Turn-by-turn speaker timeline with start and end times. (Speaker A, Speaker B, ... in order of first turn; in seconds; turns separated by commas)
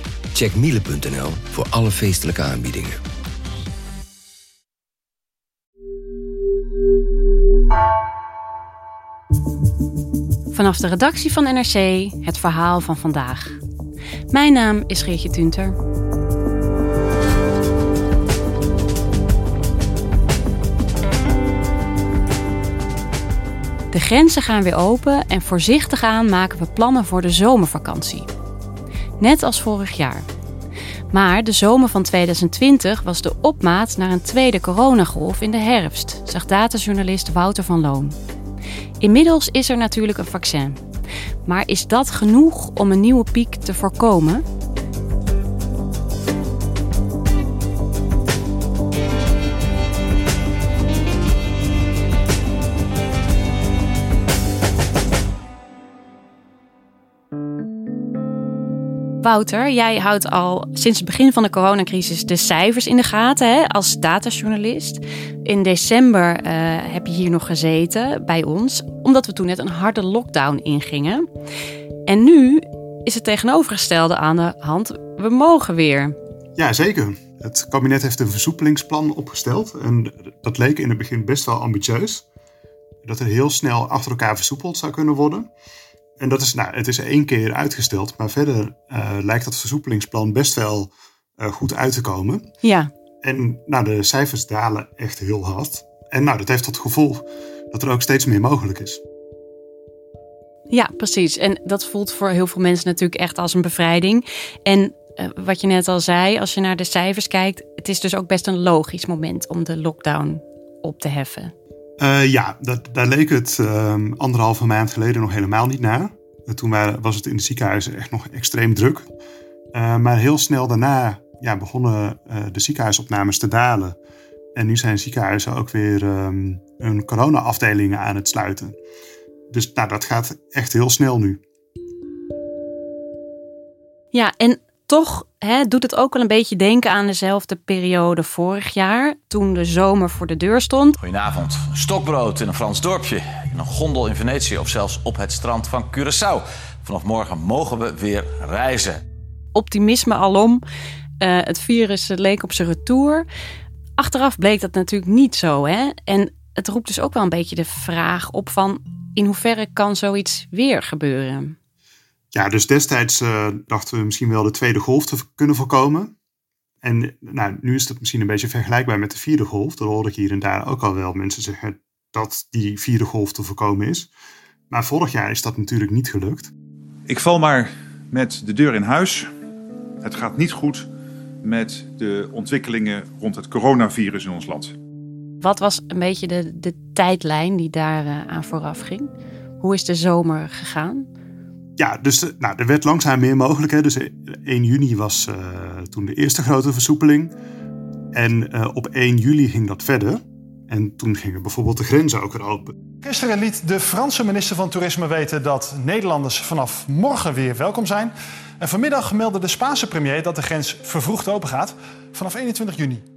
Speaker A: 0.3-3.0, Speaker B: 10.5-13.6, Speaker B: 14.3-15.8, Speaker B: 23.9-28.3, Speaker B: 29.2-30.3, Speaker B: 31.1-38.2, Speaker B: 39.0-40.8, Speaker B: 41.5-44.5, Speaker B: 59.2-71.2, Speaker B: 72.1-76.2, Speaker C: 76.6-82.2, Speaker C: 83.0-85.5, Speaker C: 86.2-92.4, Speaker B: 92.6-92.9, Speaker C: 93.2-99.0, Speaker B: 100.7-111.5, Speaker C: 112.0-119.1, Speaker C: 119.7-124.0, Speaker C: 124.6-128.8, Speaker C: 129.5-131.4, Speaker B: 134.1-141.0, Speaker D: 141.0-149.0, Speaker B: 149.5-150.6, Speaker B: 151.2-153.3, Speaker B: 154.0-161.6, Speaker C: 162.3-166.1, Speaker C: 166.8-174.1, Speaker C: 174.7-176.5, Speaker E: 177.1-179.3, Speaker E: 180.0-180.9, Speaker E: 181.4-184.8, Speaker B: 185.4-191.1, Speaker C: 191.8-197.3, Speaker C: 198.1-202.8, Speaker F: 203.0-213.0